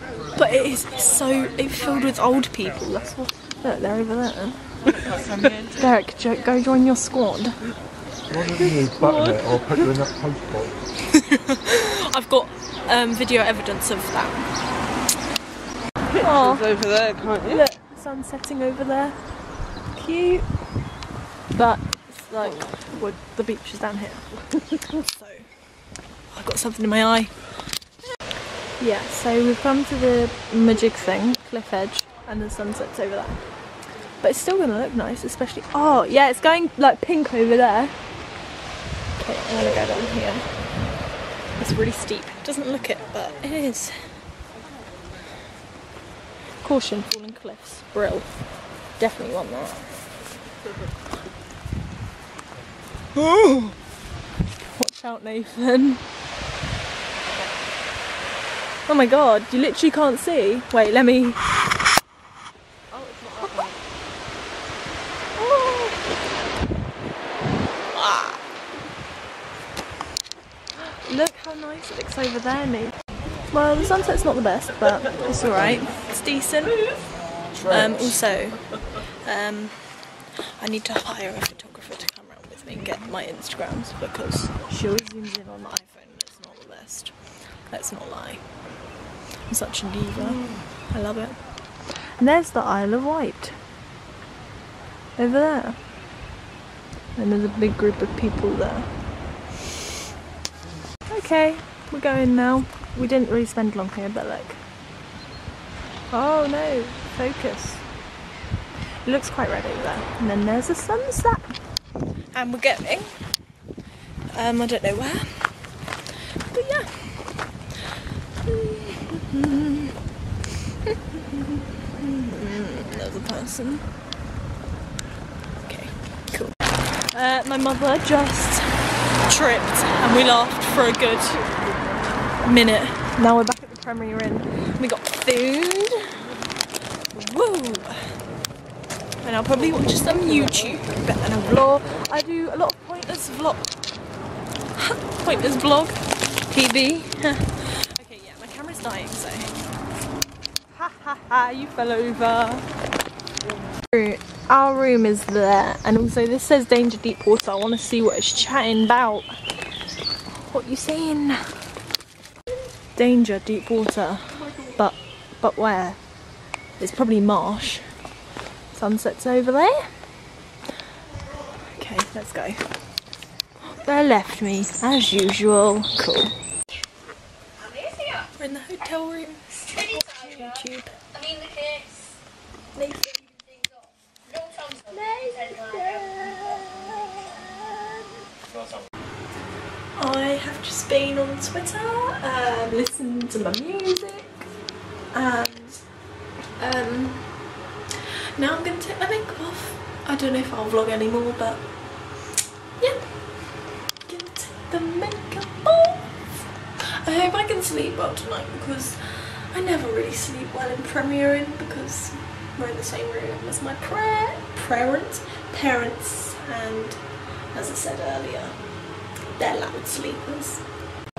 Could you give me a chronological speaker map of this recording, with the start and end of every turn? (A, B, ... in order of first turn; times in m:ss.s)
0:00.4-0:04.8 A
0:04.8-0:05.8 B
0:05.8-0:07.6 A
0:08.3-0:10.8 C
0:08.6-0:09.9 A
0:11.6-0:14.5 A
0:16.2-0:16.8 A
0:16.2-0:17.6 B
0:17.4-0:20.6 A
0:21.5-0:27.6 A
0:28.8-0:33.5 A
0:34.2-0:38.0 A
0:39.2-0:40.6 A
0:41.6-0:44.2 A
0:46.6-0:50.1 A
0:53.2-0:53.8 A
0:54.6-0:56.1 A
0:58.9-1:01.4 A
1:02.9-1:03.8 B
1:05.4-1:06.0 A
1:07.9-1:08.4 A
1:10.8-1:17.0 A
1:17.5-1:18.0 C
1:17.6-1:28.6 A
1:29.5-1:33.6 A
1:35.2-1:35.8 A
1:37.2-1:39.0 A
1:41.1-1:44.6 A
1:46.1-1:47.9 A
1:49.0-1:51.6 A
1:52.3-1:53.3 A
1:54.3-1:55.8 A
1:56.3-1:57.7 A
1:58.4-1:59.9 A
2:00.9-2:03.9 A
2:05.6-2:11.5 A
2:12.4-2:16.3 A
2:17.1-2:18.2 A
2:19.2-2:23.7 A
2:24.8-2:29.6 A
2:30.7-2:32.7 A
2:33.9-2:39.4 A
2:40.4-2:41.8 A
2:42.9-2:46.2 A
2:44.3-2:44.7 B
2:46.8-2:47.9 A
2:48.7-2:49.9 A
2:51.7-2:52.8 A
2:53.7-2:56.3 A
2:58.3-3:01.1 A
3:02.7-3:03.4 A
3:04.9-3:08.1 A
3:10.0-3:14.5 A
3:15.1-3:16.0 A
3:16.6-3:17.5 A
3:18.4-3:22.0 A
3:22.8-3:38.7 A
3:39.3-3:40.7 A